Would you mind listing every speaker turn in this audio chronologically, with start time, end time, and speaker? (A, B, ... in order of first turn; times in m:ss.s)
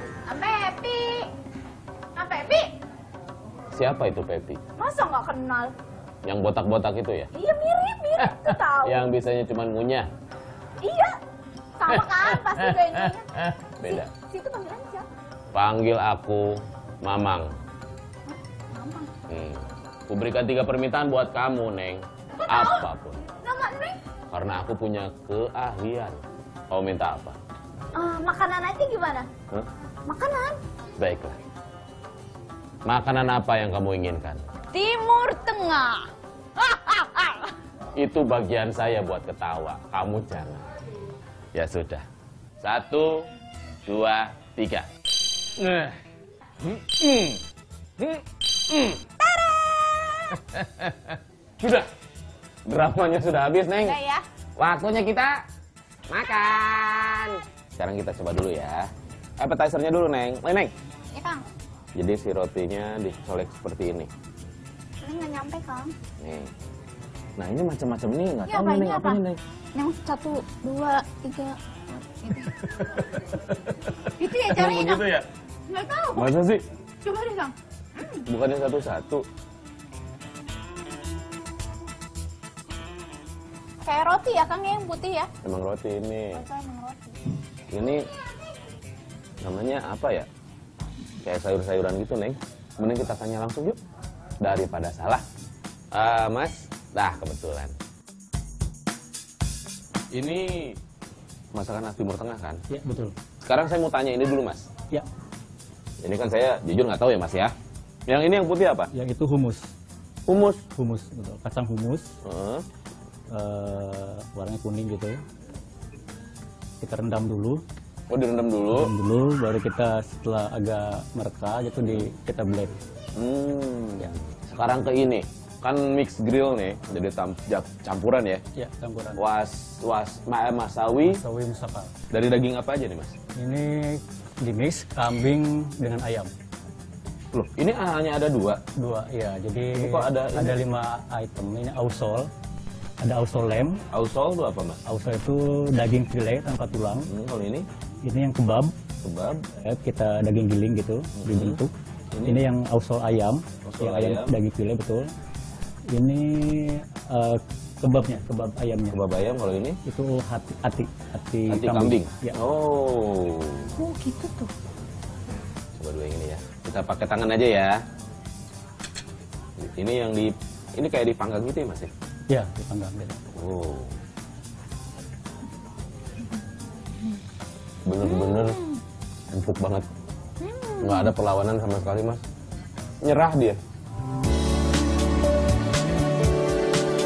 0:00.2-0:01.3 A
0:02.1-0:02.7 A
0:03.7-0:04.6 B
0:04.8-0:05.7 A
0:06.2-0:07.3 B
0:07.3-0:09.0 A
0:08.2-0:10.1 B
0:10.8-0:11.2 A
0:11.8-0:13.3 A
0:11.9-0:14.1 B
0:13.8-0:15.1 A
0:15.5-0:17.5 B
0:18.3-0:19.1 A
0:19.3-0:23.2 B
0:22.4-0:22.9 A
0:23.4-0:24.0 A
0:24.3-0:26.2 B
0:26.7-0:27.4 B
0:27.9-0:29.3 A
0:30.1-0:30.6 A
0:31.0-0:31.4 B
0:32.8-0:34.4 B
0:34.7-0:37.5 A
0:37.9-0:40.6 B
0:41.5-0:42.0 B
0:42.6-0:43.3 B
0:43.8-0:44.9 B
0:45.6-0:46.0 B
0:46.6-0:47.4 B
0:48.0-0:49.0 B
0:49.3-0:50.3 A
0:50.3-0:51.9 B
0:52.6-0:54.0 B
0:53.8-0:54.2 A
0:54.6-0:55.4 B
0:56.1-1:00.7 B
1:01.1-1:01.4 A
1:01.9-1:04.1 B
1:05.0-1:05.9 A
1:06.2-1:06.5 B
1:07.4-1:09.4 B
1:08.5-1:09.2 A
1:09.7-1:12.6 A
1:12.6-1:15.2 B
1:14.2-1:15.0 A
1:15.7-1:16.3 A
1:16.1-1:16.6 B
1:17.0-1:18.2 A
1:18.2-1:19.2 B
1:23.8-1:25.3 A
1:25.4-1:26.4 B
1:26.3-1:27.2 A
1:27.7-1:28.1 B
1:29.4-1:30.3 B
1:31.2-1:33.8 B
1:34.4-1:35.2 B
1:35.9-1:37.7 B
1:40.1-1:40.8 B
1:41.5-1:42.6 B
1:42.7-1:43.1 C
1:43.4-1:44.7 B
1:46.0-1:47.5 B
1:48.1-1:48.9 B
1:48.9-1:49.7 C
1:50.3-1:50.6 B
1:50.7-1:52.1 C
1:52.2-1:52.6 B
1:53.3-1:55.2 C
1:56.8-1:57.6 C
1:58.1-1:58.9 B
1:58.7-2:02.7 C
2:03.1-2:08.4 B
2:08.5-2:09.2 C
2:09.2-2:11.2 B
2:11.0-2:11.9 C
2:12.1-2:13.2 B
2:13.4-2:16.3 C
2:17.3-2:18.6 B
2:18.8-2:22.3 C
2:19.7-2:20.6 B
2:23.0-2:23.8 C
2:23.9-2:24.8 B
2:24.8-2:27.1 C
2:27.0-2:27.6 B
2:28.0-2:28.7 C
2:29.0-2:29.4 B
2:29.5-2:31.7 C
2:31.2-2:31.6 B
2:32.1-2:32.4 B
2:32.2-2:35.1 C
2:33.6-2:34.4 B
2:35.9-2:39.0 C
2:38.9-2:39.8 B
2:39.8-2:42.4 C
2:41.5-2:43.7 B
2:43.8-2:44.5 A
2:45.8-2:47.8 B
2:49.6-2:51.9 B
2:52.3-2:53.2 C
2:53.3-2:54.0 B
2:57.8-2:58.6 B
2:58.0-2:58.8 A
2:59.3-2:59.8 B
3:00.4-3:01.1 A
3:00.8-3:02.2 B
3:03.0-3:03.6 B